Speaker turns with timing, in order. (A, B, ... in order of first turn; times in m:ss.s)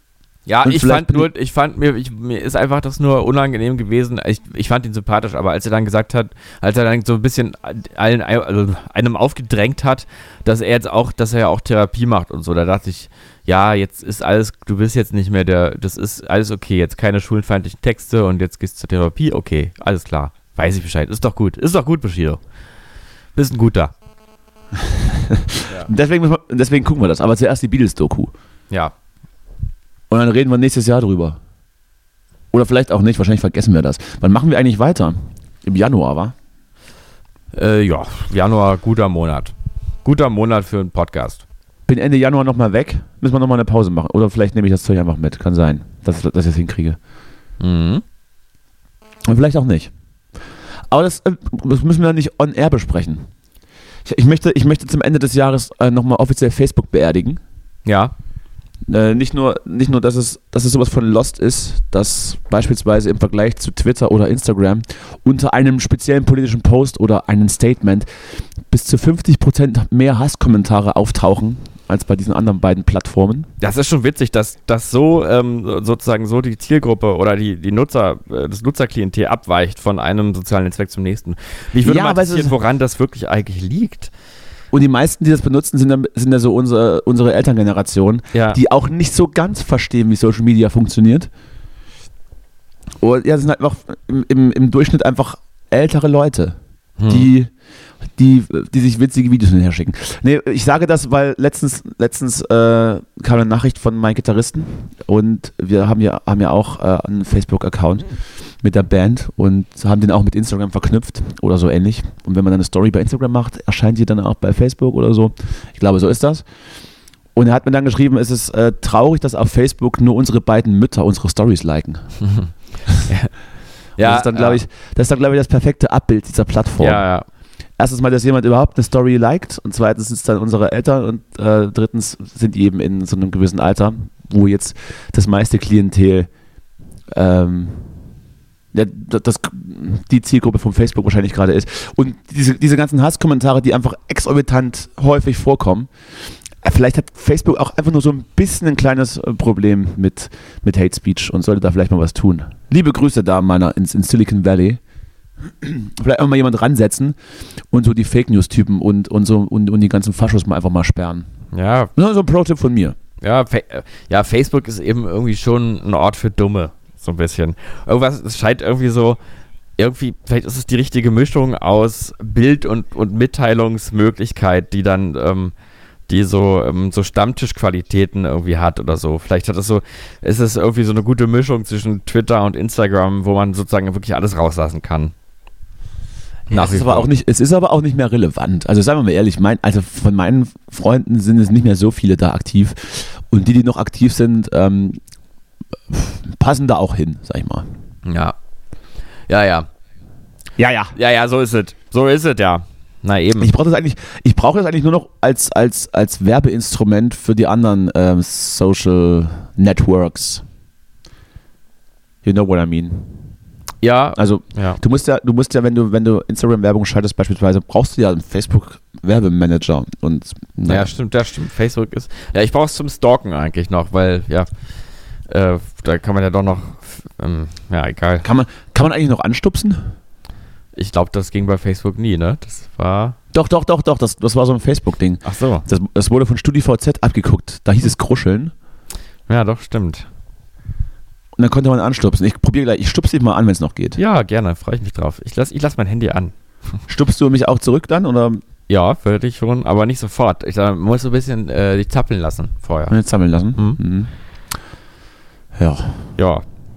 0:00.5-0:22.4 A
0:00.6-0:01.3 B
0:23.3-0:23.9 A
0:24.7-0:28.3 B
0:30.1-0:31.4 B
0:32.5-0:36.3 B
0:37.5-0:41.4 A
0:41.9-0:47.0 B
0:47.6-0:48.0 A
0:49.3-0:49.9 B
0:50.9-0:53.3 B
0:54.0-0:57.4 B
0:57.8-0:58.1 A
0:58.9-1:08.1 B
1:08.7-1:13.5 B
1:13.6-1:24.1 A
1:21.8-1:22.6 B
1:24.7-1:31.3 B
1:28.3-1:28.6 A
1:33.0-1:37.5 B
1:37.0-1:37.3 A
1:38.2-1:48.1 B
1:48.6-1:56.4 B
1:57.3-2:02.0 B
2:02.2-2:02.5 A
2:03.0-2:03.3 A
2:04.0-2:04.6 A
2:04.0-2:07.0 B
2:06.8-2:07.2 A
2:07.8-2:16.3 B
2:17.1-2:17.9 B
2:18.7-2:25.9 B
2:26.6-2:34.8 B
2:35.6-2:37.2 B
2:37.7-2:41.3 B
2:41.5-2:41.9 A
2:42.0-2:43.0 B
2:43.2-2:49.2 A
2:49.8-2:55.5 A
2:56.1-3:05.1 A
3:06.5-3:07.1 A
3:06.5-3:15.0 B
3:15.9-3:17.7 B
3:18.0-3:18.3 A
3:19.3-3:19.7 A
3:20.6-3:20.9 B
3:20.9-3:23.5 A
3:23.4-3:30.4 B
3:32.2-3:33.2 B
3:33.8-3:34.8 A
3:34.1-3:40.9 B
3:40.6-3:44.5 A
3:45.3-3:48.3 A
3:48.2-3:49.9 B
3:50.7-3:53.2 A
3:53.3-3:58.5 B
3:55.2-3:55.6 A
3:59.3-4:00.1 A
4:01.4-4:04.0 B
4:04.0-4:06.3 A
4:06.9-4:08.4 B
4:08.7-4:13.0 A
4:12.9-4:14.1 B
4:15.6-4:16.1 B
4:16.2-4:16.4 A